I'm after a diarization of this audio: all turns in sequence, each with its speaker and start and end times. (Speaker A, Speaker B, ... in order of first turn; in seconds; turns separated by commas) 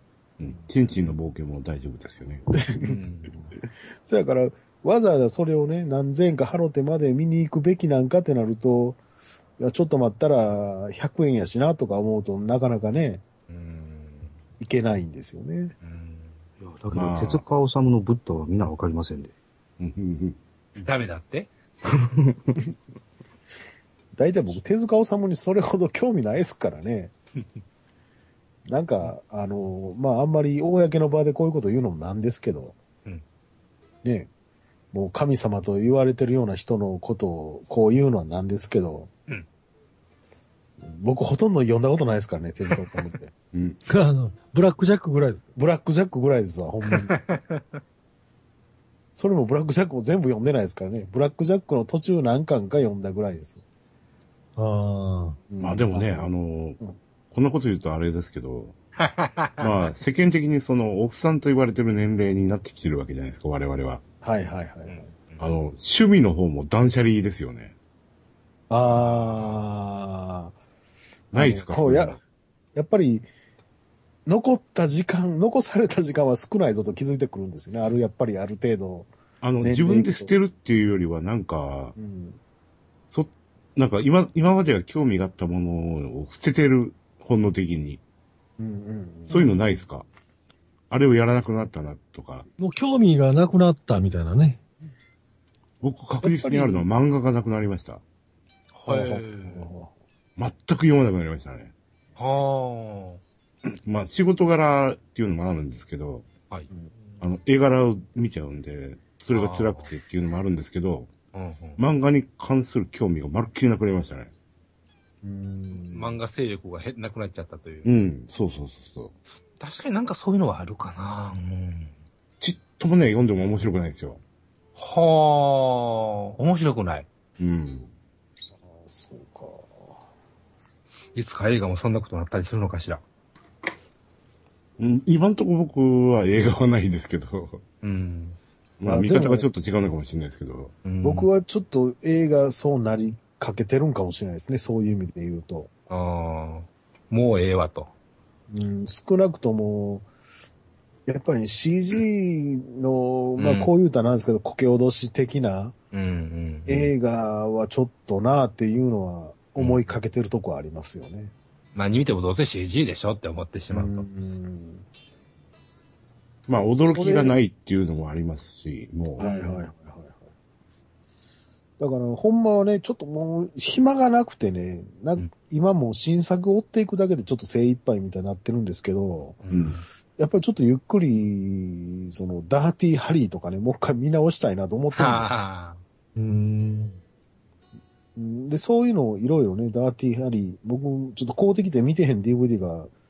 Speaker A: 0.4-2.5, Speaker B: 2.5-2.9, Speaker C: 2.8-3.3, Speaker B: 4.0-9.0, Speaker B: 9.6-13.2, Speaker C: 13.5-14.4, Speaker B: 14.6-15.7, Speaker C: 15.8-16.4, Speaker D: 16.6-19.3, Speaker A: 16.9-17.4, Speaker A: 19.8-20.4, Speaker C: 20.8-21.5, Speaker D: 22.1-22.4, Speaker B: 24.1-27.1, Speaker B: 28.6-32.8, Speaker B: 34.0-34.3, Speaker B: 34.9-39.1, Speaker B: 40.8-43.3, Speaker C: 42.7-42.9, Speaker A: 43.5-43.8, Speaker E: 43.9-45.5, Speaker B: 45.5-47.1, Speaker C: 46.8-47.8, Speaker B: 49.1-53.6, Speaker E: 54.6-55.4, Speaker B: 55.5-56.3, Speaker A: 55.6-56.8, Speaker A: 57.3-58.8, Speaker C: 59.0-59.7, Speaker A: 59.6-64.0, Speaker B: 64.2-65.1, Speaker C: 64.9-65.5, Speaker A: 65.4-67.7, Speaker B: 68.7-70.5, Speaker C: 68.8-69.7, Speaker B: 71.3-72.2, Speaker A: 71.3-72.2, Speaker B: 72.7-73.3, Speaker B: 74.2-80.3, Speaker A: 79.4-81.9, Speaker B: 82.0-82.4, Speaker A: 83.1-88.0, Speaker B: 88.6-89.6, Speaker A: 89.3-90.0, Speaker A: 90.9-92.5, Speaker E: 92.6-94.6, Speaker A: 95.8-98.0, Speaker B: 96.2-96.8, Speaker C: 98.7-99.7, Speaker B: 98.8-99.9, Speaker A: 100.3-101.7, Speaker C: 102.2-103.2, Speaker A: 103.8-106.3, Speaker A: 107.2-111.1, Speaker C: 109.3-109.9, Speaker C: 111.3-111.8, Speaker A: 111.8-114.3, Speaker B: 115.2-116.2, Speaker C: 115.7-117.9, Speaker A: 117.8-119.1, Speaker C: 119.6-122.0, Speaker A: 122.4-124.2, Speaker C: 124.8-127.1, Speaker A: 127.4-127.9, Speaker B: 128.7-130.0, Speaker C: 131.1-133.0, Speaker A: 134.8-137.6, Speaker C: 137.8-138.4, Speaker A: 138.8-140.7, Speaker B: 138.8-139.4, Speaker C: 140.8-141.3, Speaker B: 141.0-145.7, Speaker C: 145.9-147.9, Speaker B: 148.5-150.1, Speaker B: 151.1-155.8, Speaker C: 153.4-153.7, Speaker C: 155.9-156.9, Speaker B: 156.7-161.3, Speaker C: 159.6-160.0, Speaker C: 161.7-164.1, Speaker B: 163.7-164.8, Speaker A: 166.5-169.3, Speaker B: 166.8-167.3, Speaker B: 169.2-170.3, Speaker C: 169.2-169.6, Speaker B: 171.8-179.4, Speaker C: 179.4-179.8, Speaker A: 179.5-179.8, Speaker B: 180.2-185.3, Speaker C: 184.9-185.8, Speaker E: 186.2-187.0, Speaker B: 188.2-192.9